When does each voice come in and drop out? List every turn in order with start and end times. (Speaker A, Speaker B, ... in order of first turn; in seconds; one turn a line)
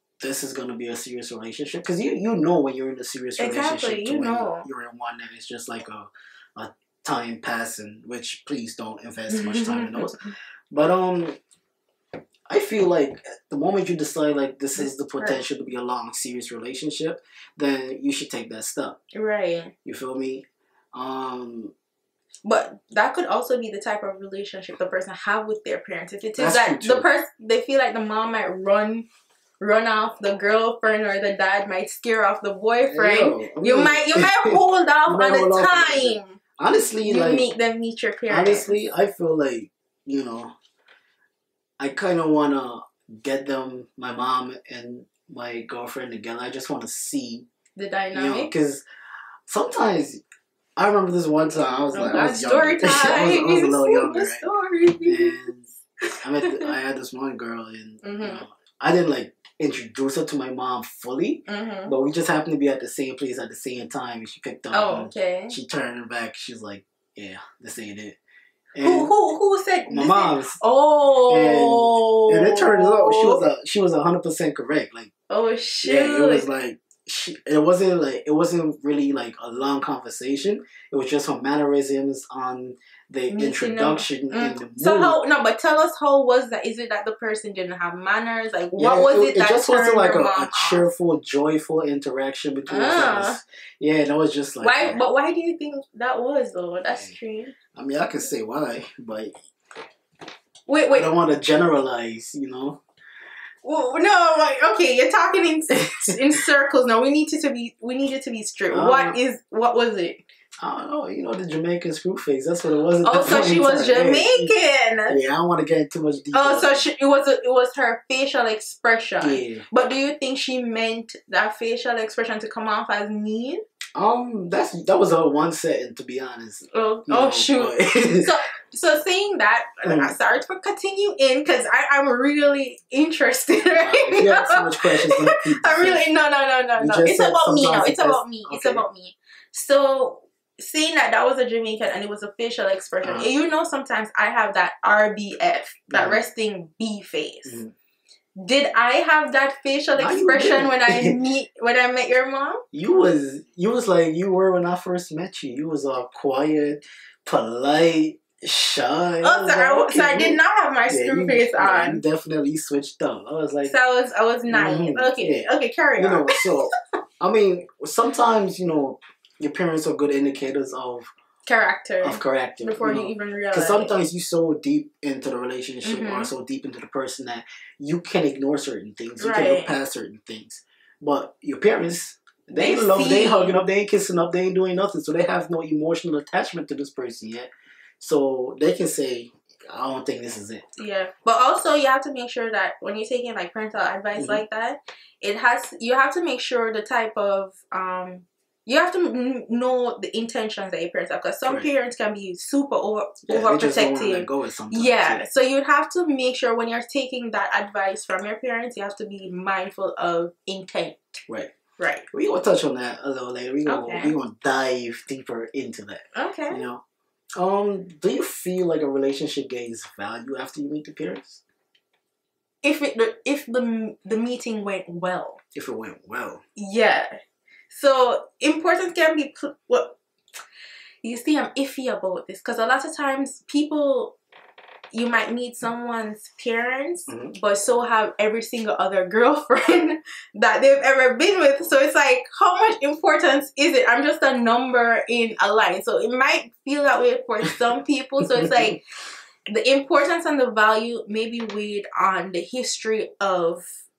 Speaker A: 0.2-10.2
Speaker B: 3.4-4.7
Speaker B: 9.3-10.3
Speaker A: 10.7-11.4
Speaker A: 12.5-19.0
Speaker B: 14.8-15.4
Speaker B: 19.1-19.7
Speaker A: 19.8-21.7
Speaker B: 22.4-29.1
Speaker A: 26.4-27.1
Speaker B: 29.6-36.4
Speaker A: 32.9-37.5
Speaker B: 37.0-38.8
Speaker A: 38.3-40.5
Speaker A: 41.8-47.5
Speaker B: 47.8-48.5
Speaker A: 48.1-48.8
Speaker A: 49.5-50.2
Speaker A: 50.8-54.5
Speaker B: 51.9-55.4
Speaker A: 55.0-55.7
Speaker A: 56.2-68.2
Speaker B: 56.4-56.7
Speaker B: 58.0-58.4
Speaker B: 61.5-61.9
Speaker B: 64.7-65.5
Speaker A: 68.7-69.1
Speaker B: 68.8-73.5
Speaker A: 69.8-70.6
Speaker A: 71.3-75.1
Speaker B: 75.3-76.5
Speaker A: 75.8-85.2
Speaker B: 83.3-90.9
Speaker A: 88.8-95.0
Speaker B: 92.7-93.4
Speaker B: 94.6-97.5
Speaker A: 97.7-99.3
Speaker B: 100.7-101.1
Speaker A: 100.9-102.8
Speaker B: 103.6-110.2
Speaker A: 108.7-109.2
Speaker A: 110.6-114.5
Speaker B: 113.0-115.2
Speaker A: 115.1-116.8
Speaker B: 116.3-123.6
Speaker A: 119.2-119.6
Speaker A: 123.9-128.3
Speaker B: 126.7-147.6
Speaker A: 129.8-130.1
Speaker A: 133.7-136.1
Speaker A: 136.8-138.8
Speaker A: 143.0-143.3
Speaker A: 145.9-146.2
Speaker A: 147.4-147.7
Speaker B: 148.4-152.6
Speaker A: 149.9-151.2
Speaker A: 152.7-160.4
Speaker B: 159.2-162.0
Speaker A: 160.9-163.7
Speaker B: 163.6-166.5
Speaker A: 164.5-171.1
Speaker B: 171.4-173.9
Speaker A: 172.0-190.6
Speaker B: 175.8-176.3
Speaker B: 179.2-179.7
Speaker B: 182.5-183.6
Speaker B: 190.8-211.2
Speaker A: 194.2-194.4
Speaker A: 203.3-205.2
Speaker B: 211.8-212.1
Speaker A: 212.1-216.8
Speaker B: 213.7-214.1
Speaker B: 216.1-216.6
Speaker A: 217.3-221.4
Speaker B: 222.6-225.4
Speaker A: 225.5-226.4
Speaker B: 226.6-227.1
Speaker B: 227.7-230.0
Speaker B: 231.0-234.2
Speaker B: 234.9-248.8
Speaker A: 237.1-237.3
Speaker A: 248.3-248.7
Speaker B: 249.5-253.7